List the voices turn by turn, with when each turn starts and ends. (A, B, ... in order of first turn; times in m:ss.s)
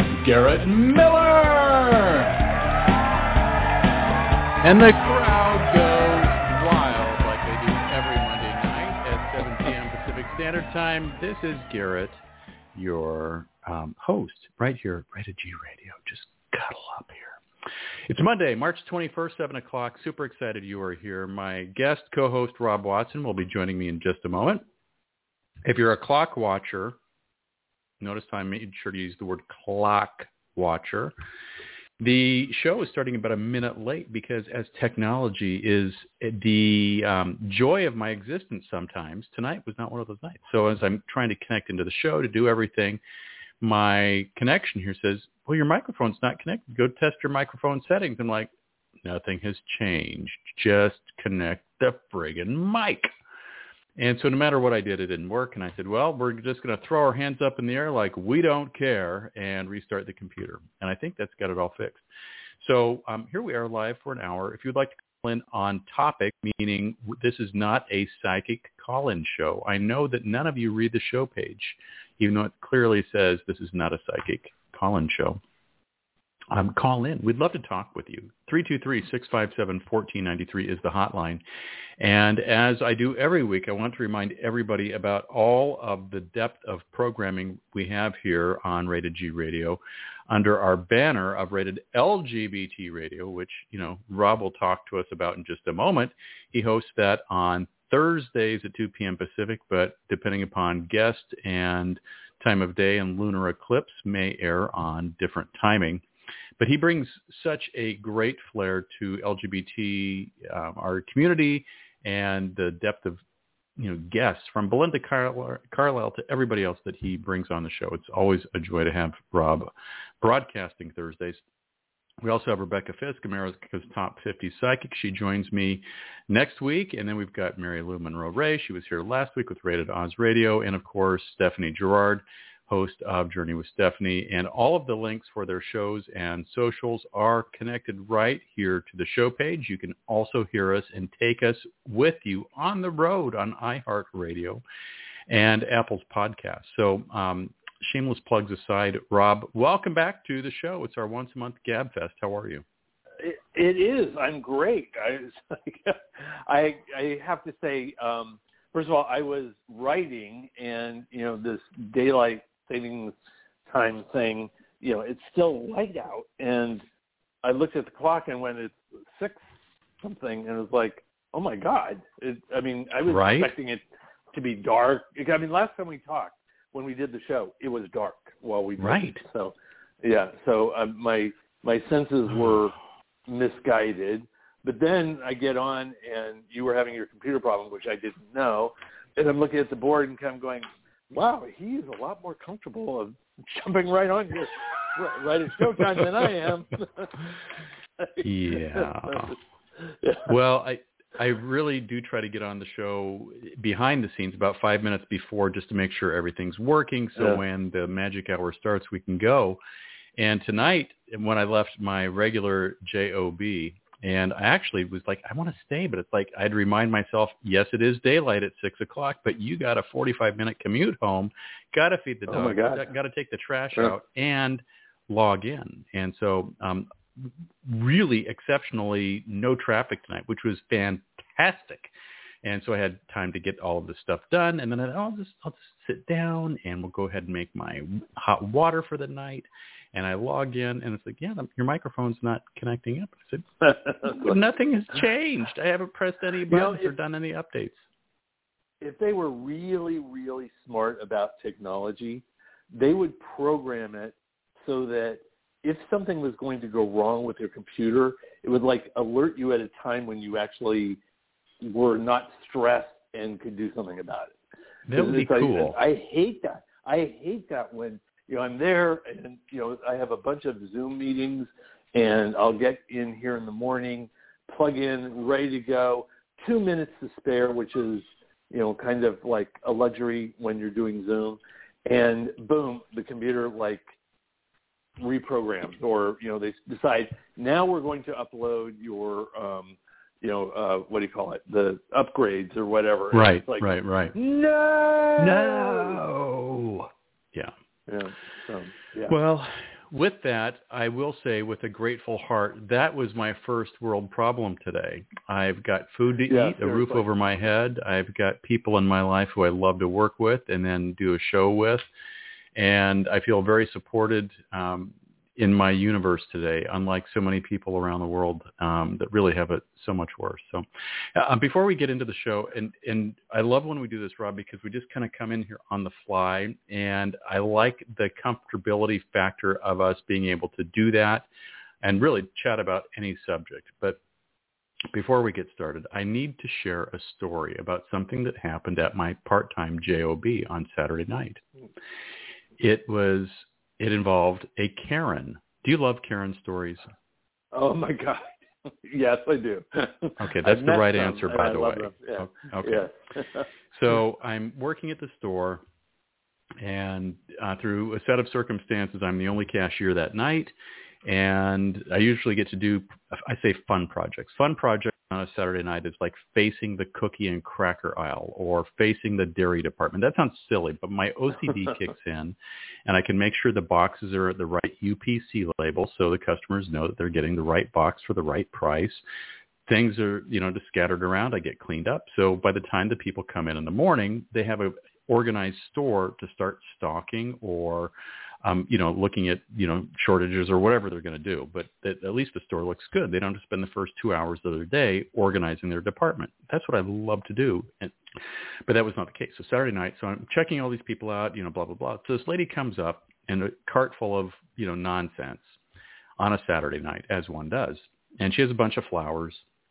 0:00.2-0:02.2 A
0:00.3-0:01.3 B
0:04.6-0:12.2 B
0:12.7-0:17.4 B
0:18.1-0:24.6 B
0:25.6-0:27.0 B
0:28.0-0:31.1 B
0:32.0-0:43.0 B
0:43.6-0:48.5 B
0:49.0-0:53.1 B
0:54.0-1:02.0 B
1:02.6-1:15.4 B
1:16.5-1:21.4 B
1:22.0-1:46.0 B
1:46.6-1:53.2 B
1:53.8-1:59.7 B
2:00.2-2:01.4 B
2:02.2-2:24.6 B
2:25.3-2:32.6 B
2:33.2-2:43.1 C
2:43.7-2:46.8 C
2:47.4-2:49.4 C
2:50.0-3:02.8 C
2:53.0-2:53.5 B
2:58.8-2:59.2 B
3:03.3-3:17.3 C
3:18.0-3:20.3 C
3:18.2-3:19.3 B
3:20.3-3:29.6 B
3:27.2-3:27.4 C
3:30.2-3:51.9 B
3:42.3-3:42.8 C
3:52.4-4:07.8 B
4:03.9-4:04.4 C
4:06.5-4:06.9 C
4:08.8-4:21.0 C
4:21.6-4:24.4 C
4:24.9-4:25.7 B
4:24.9-4:43.8 C
4:45.0-4:56.0 C
4:53.1-4:54.1 B
4:55.2-4:57.5 B
4:57.9-4:59.1 C
4:59.1-5:11.8 B
5:06.3-5:07.0 C
5:12.6-5:31.3 B
5:31.8-5:34.0 B
5:34.9-5:41.4 B
5:42.6-5:46.8 B
5:47.5-5:53.5 C
5:50.2-5:52.9 B
5:53.7-5:55.6 B
5:56.6-6:00.5 B
6:01.0-6:19.0 B
6:19.7-6:27.9 B
6:28.4-6:38.0 B
6:38.7-6:45.6 B
6:46.2-6:49.4 B